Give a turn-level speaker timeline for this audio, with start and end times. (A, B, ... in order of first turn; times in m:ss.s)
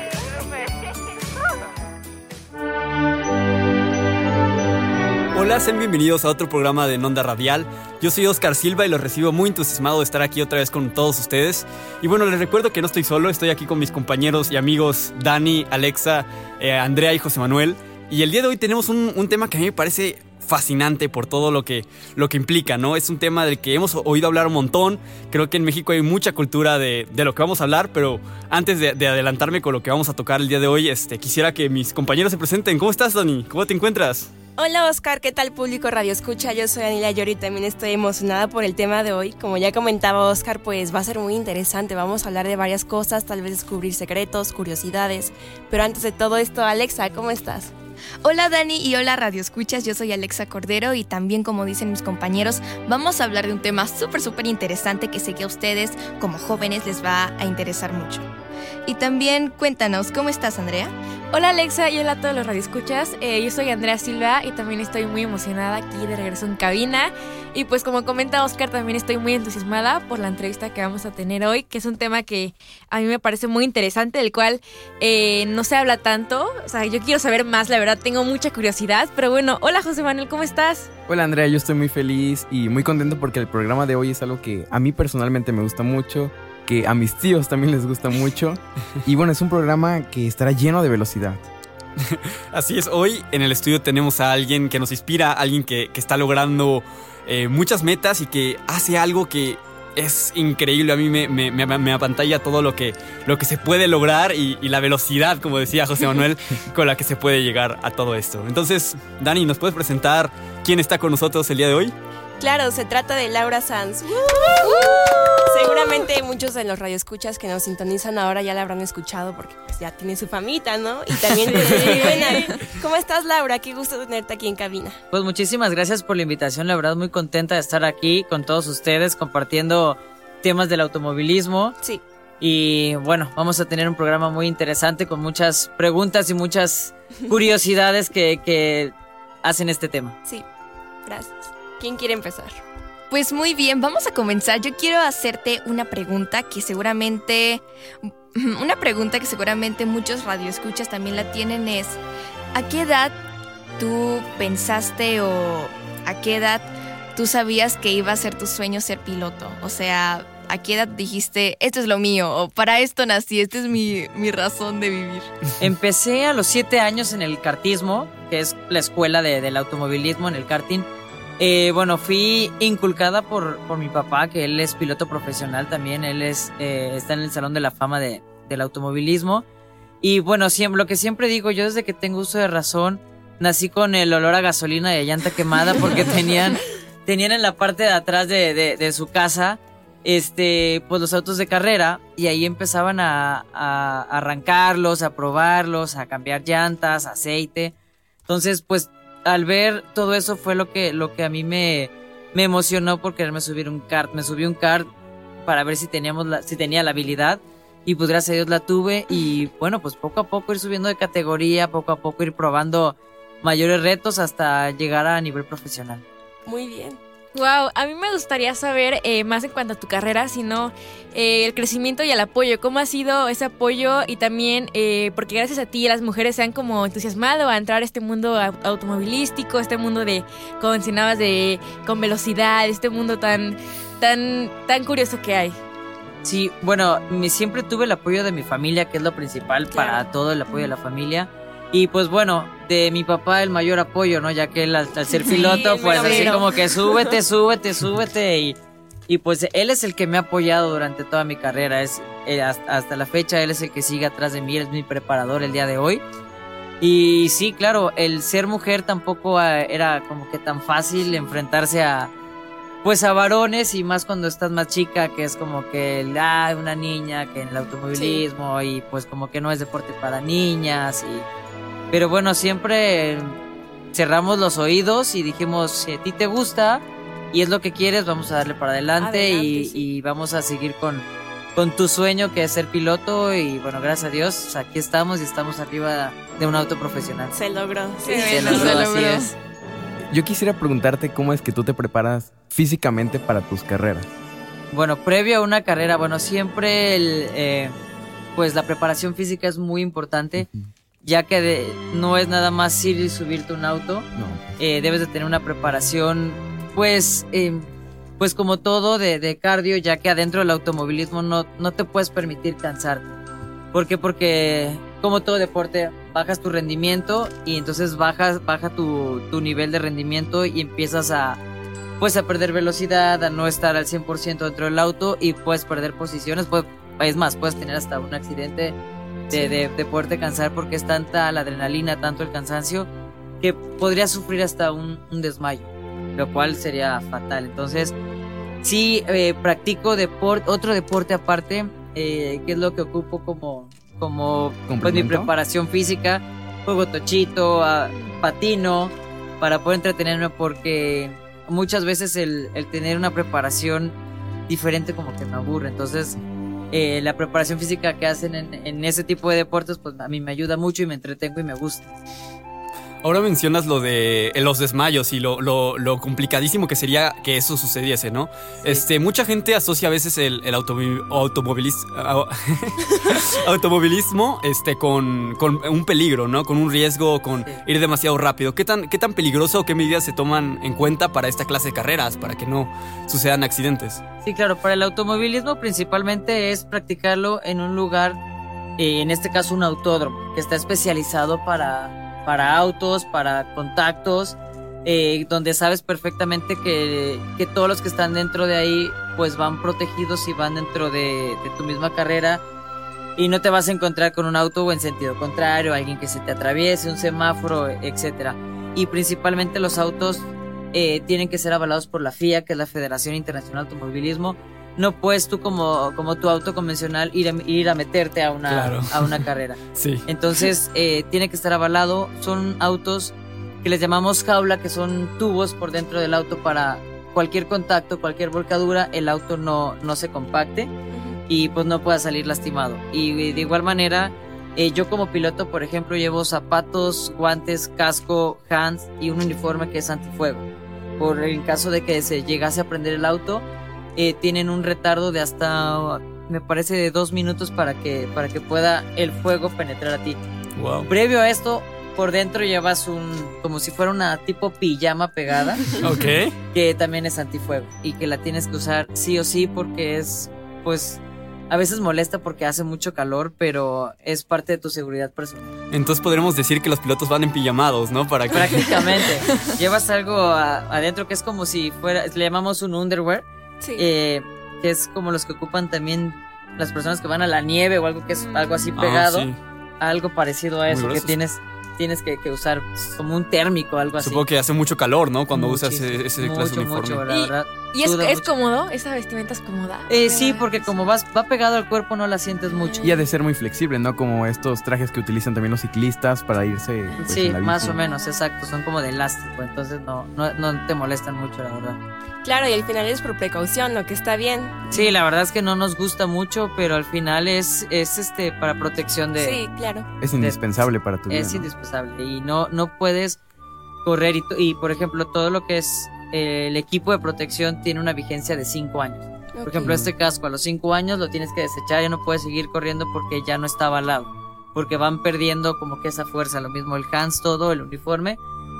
0:05.3-0:34.3 A
0:34.6-0:47.7 B
0:48.2-0:58.3 C
0:58.8-1:00.9 C
1:01.3-1:20.9 D
1:21.1-1:31.5 E
1:32.0-1:51.9 A
1:52.4-2:05.0 B
2:01.5-2:02.5 D
2:01.6-2:02.0 A
2:05.1-2:11.8 F
2:12.4-2:18.9 F
2:19.4-2:20.1 F
2:21.0-2:22.6 B
2:23.1-2:32.0 C
2:32.5-2:33.2 C
2:33.8-2:45.3 C
2:45.6-2:50.9 F
2:51.4-2:59.4 F
3:00.0-3:17.7 F
3:18.3-3:24.9 F
3:25.4-3:36.0 F
3:36.4-3:37.0 B
3:37.3-3:55.6 D
3:56.2-4:08.6 F
3:59.7-4:00.1 B
4:05.1-4:07.2 B
4:05.3-4:06.3 D
4:09.1-4:16.0 F
4:16.8-4:22.1 F
4:22.8-4:31.3 F
4:27.9-4:28.2 B
4:31.9-4:33.4 F
4:33.9-4:47.4 F
4:39.0-4:39.3 D
4:39.2-4:39.8 B
4:47.3-4:48.9 B
4:48.0-4:49.3 C
4:48.1-4:49.3 F
4:50.1-4:54.1 E
4:54.7-4:57.7 F
4:58.3-5:00.5 F
5:00.4-5:00.7 E
5:01.0-5:04.1 F
5:04.1-5:04.6 E
5:04.6-5:07.7 F
5:08.2-5:13.2 F
5:13.7-5:21.4 F
5:22.0-5:28.8 F
5:29.3-5:32.9 F
5:29.3-5:29.6 B
5:33.4-5:37.9 F
5:38.6-5:54.0 F
5:44.7-5:45.3 E
5:54.5-5:56.2 F
5:56.7-6:02.0 F
6:03.0-6:24.0 A
6:24.2-6:28.2 F
6:28.8-6:42.4 F
6:43.2-7:10.7 F
6:58.5-7:00.0 A
7:10.9-7:11.2 B
7:11.3-7:20.4 F
7:21.0-7:23.4 F
7:24.0-7:30.2 F
7:30.6-7:30.9 A
7:30.9-7:35.8 F
7:35.8-7:36.4 A
7:36.5-7:45.6 F
7:45.7-7:49.0 A
7:48.3-7:53.2 F
7:53.8-7:59.3 F
7:58.8-7:59.4 A
7:59.8-8:04.2 F
8:00.7-8:01.1 A
8:04.0-8:07.0 A
8:05.3-8:08.3 F
8:07.1-8:10.7 D
8:09.9-8:12.8 F
8:12.6-8:12.9 D
8:12.8-8:17.8 E
8:17.0-8:21.8 F
8:17.6-8:18.2 D
8:22.2-8:24.9 B
8:24.7-8:29.4 F
8:29.2-8:29.9 B
8:30.0-8:31.5 E
8:30.2-8:30.4 F
8:31.1-8:33.2 F
8:33.8-8:48.2 F
8:39.3-8:39.8 B
8:39.6-8:39.9 A